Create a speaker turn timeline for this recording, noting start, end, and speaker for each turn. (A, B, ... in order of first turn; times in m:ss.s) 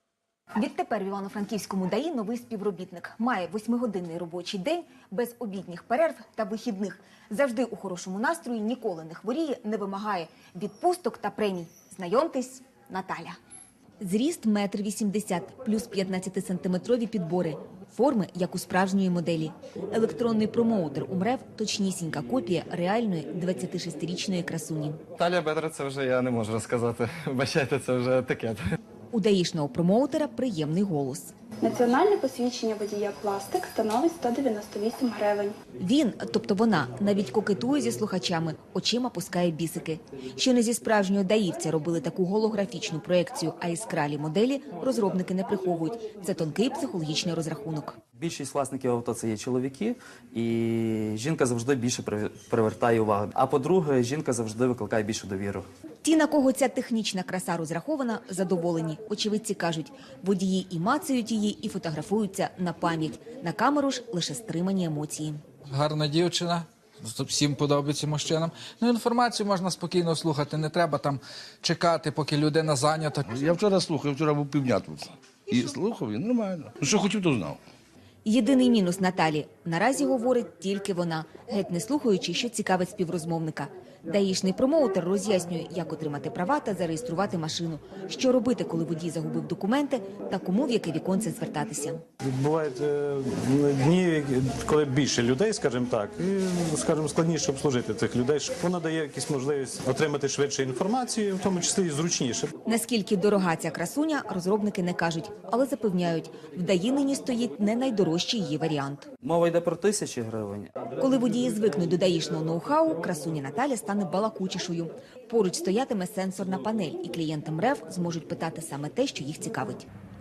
0:00.6-0:13.4 A
0:14.0-0:25.0 A
0:25.2-0:28.7 B
0:29.1-0:31.3 A
0:31.6-0:35.6 C
0:35.8-0:48.0 A
0:48.2-0:55.7 D
0:56.0-1:05.4 A
1:05.7-1:13.4 E
1:13.3-1:17.6 F
1:18.2-1:32.0 A
1:32.2-1:42.5 G
1:42.6-1:49.1 A
1:49.2-1:50.7 D
1:51.0-1:59.9 A